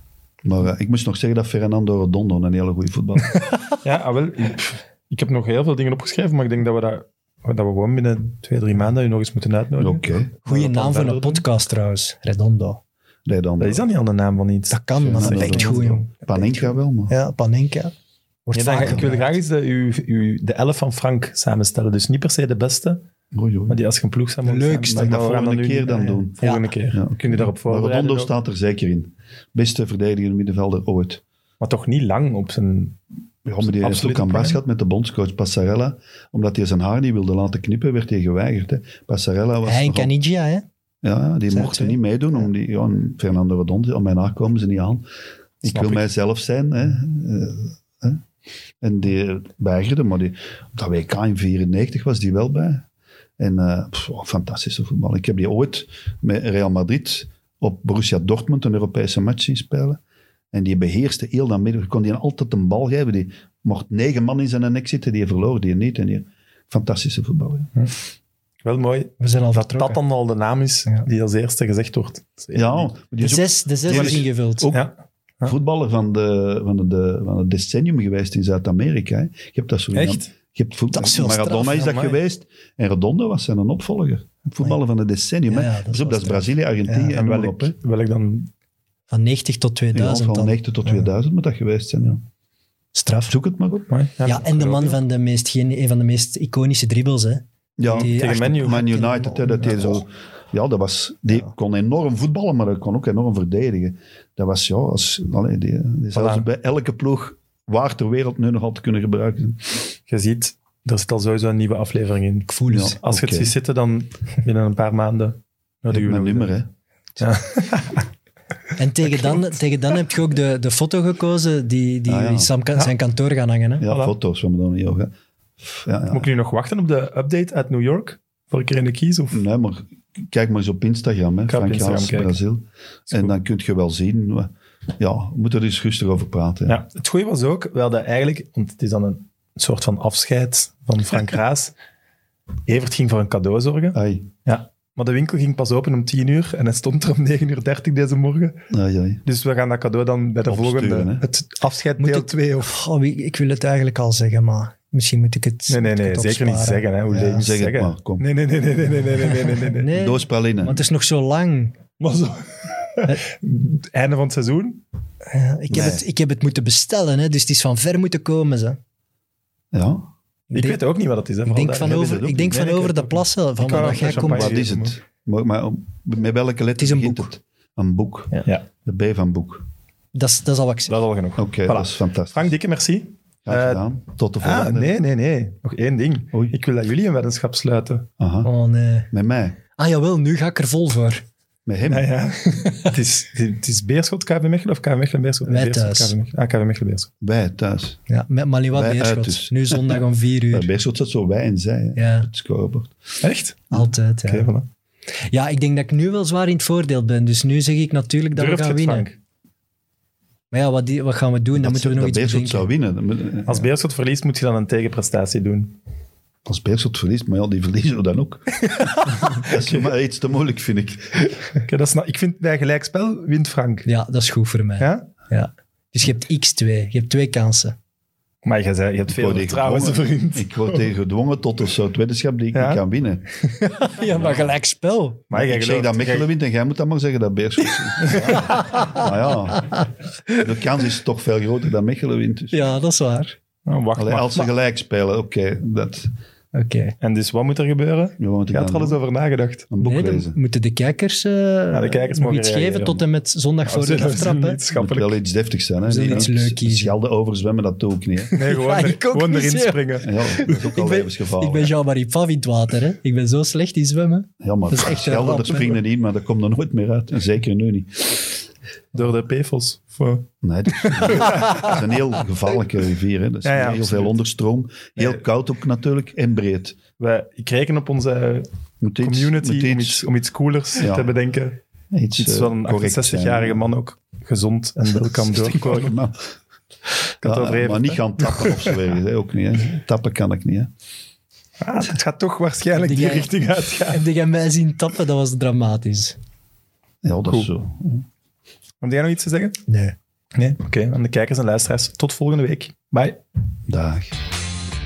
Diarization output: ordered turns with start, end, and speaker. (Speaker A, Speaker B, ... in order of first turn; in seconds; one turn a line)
Speaker A: 0.4-3.4
Speaker B: 3.8-11.4
Speaker A: 9.8-10.3
Speaker C: 10.4-12.8
Speaker A: 13.2-13.8
Speaker B: 13.6-16.0
Speaker C: 14.7-17.9
Speaker A: 15.0-17.1
Speaker C: 18.4-19.3
Speaker B: 18.5-23.0
Speaker A: 23.3-23.8
Speaker B: 23.7-28.3
Speaker C: 24.4-25.2
Speaker A: 24.9-26.4
Speaker C: 25.9-26.7
Speaker A: 26.9-31.2
Speaker B: 31.6-33.0
Speaker A: 33.4-40.1
Speaker B: 33.6-34.6
Speaker C: 39.6-40.6
Speaker A: 41.0-45.0
Speaker C: 41.5-42.0
Speaker A: 45.6-48.2
Speaker B: 45.6-46.0
Speaker A: 48.8-52.8
Speaker A: 53.4-60.0
Speaker A: 60.5-67.7
Speaker B: 68.6-72.9
Speaker C: 69.2-70.0
Speaker A: 72.5-74.7
Speaker C: 73.2-74.7
Speaker B: 73.9-75.5
Speaker A: 75.4-87.7
Speaker B: 79.9-80.3
Speaker C: 80.9-81.9
Speaker B: 81.7-82.2
Speaker C: 85.5-87.2
Speaker B: 87.1-88.5
Speaker C: 89.1-91.0
Speaker A: 89.9-92.2
Speaker C: 92.9-93.4
Speaker A: 93.3-93.9
Speaker B: 93.9-95.0
Speaker C: 94.2-99.9
Speaker A: 97.8-109.9
Speaker B: 97.9-98.8
Speaker B: 106.1-106.5
Speaker B: 110.1-116.6
Speaker C: 112.5-113.0
Speaker A: 112.7-113.5
Speaker A: 115.9-116.7
Speaker B: 117.2-118.1
Speaker C: 118.8-123.8
Speaker B: 119.0-119.5
Speaker A: 122.1-122.5
Speaker A: 123.8-126.3
Speaker B: 123.8-124.1
Speaker B: 126.1-129.4
Speaker A: 129.3-136.8
Speaker B: 131.5-132.4
Speaker B: 136.7-141.7
Speaker B: 142.7-148.7
Speaker A: 143.9-144.3
Speaker A: 148.7-149.2
Speaker B: 149.2-152.8
Speaker A: 150.5-151.3
Speaker C: 152.0-156.8
Speaker B: 155.7-159.9
Speaker A: 157.1-158.3
Speaker C: 159.2-161.8
Speaker A: 159.9-160.8
Speaker B: 162.0-164.8
Speaker C: 165.3-168.8
Speaker A: 165.7-166.0
Speaker A: 169.7-170.1
Speaker C: 170.5-170.8
Speaker B: 170.5-174.9
Speaker C: 171.4-174.6
Speaker A: 171.8-172.6
Speaker A: 173.8-179.7
Speaker C: 176.8-177.3
Speaker C: 180.1-180.9
Speaker B: 180.9-183.8
Speaker A: 181.4-182.5
Speaker A: 183.4-184.9
Speaker B: 184.4-188.1
Speaker A: 188.2-188.5
Speaker C: 188.4-189.1
Speaker A: 189.1-189.6
Speaker C: 189.7-191.2
Speaker A: 191.7-192.1
Speaker B: 191.9-197.1
Speaker C: 195.5-196.1
Speaker A: 197.2-198.0
Speaker C: 198.1-200.7
Speaker A: 198.7-202.9
Speaker C: 201.9-202.3
Speaker B: 203.2-203.7
Speaker C: 203.7-204.5
Speaker B: 204.2-204.7
Speaker C: 205.3-209.1
Speaker B: 208.3-209.2
Speaker C: 210.5-212.7
Speaker A: 211.6-213.7
Speaker B: 213.4-215.8
Speaker A: 216.4-221.3
Speaker B: 218.7-219.9
Speaker B: 221.2-223.9
Speaker C: 223.8-227.8
Speaker B: 224.8-225.1
Speaker B: 228.4-230.8
Speaker A: 229.1-233.4
Speaker B: 232.5-232.8
Speaker B: 233.4-233.8
Speaker C: 233.7-235.2
Speaker B: 235.3-236.3
Speaker A: 235.3-239.8
Speaker B: 238.0-238.5
Speaker C: 238.3-240.5
Speaker A: 240.4-242.8
Speaker C: 242.5-243.4
Speaker B: 243.7-244.5
Speaker A: 243.9-246.1
Speaker C: 246.5-246.9
Speaker B: 247.0-249.7
Speaker A: 248.2-249.0
Speaker A: 249.7-250.4
Speaker C: 249.8-254.6
Speaker B: 251.7-253.0
Speaker B: 253.6-255.2
Speaker A: 254.7-258.4
Speaker C: 255.8-256.9
Speaker C: 258.3-265.8
Speaker B: 258.3-260.1
Speaker A: 260.0-261.7
Speaker A: 264.4-268.4
Speaker B: 268.9-271.7
Speaker A: 270.4-276.8
Speaker C: 271.2-271.8
Speaker B: 273.4-274.1
Speaker B: 275.0-275.2
Speaker B: 277.0-278.5
Speaker A: 278.8-280.1
Speaker B: 279.0-281.6
Speaker A: 280.8-281.1
Speaker A: 281.9-283.7
Speaker B: 282.1-286.0
Speaker A: 285.1-286.2
Speaker B: 287.2-288.8
Speaker A: 287.2-290.7
Speaker B: 291.6-294.0
Speaker C: 292.8-296.2
Speaker A: 297.0-298.1
Speaker B: 298.8-299.6
Speaker C: 299.7-299.9
Speaker B: 300.4-303.2
Speaker A: 303.7-304.1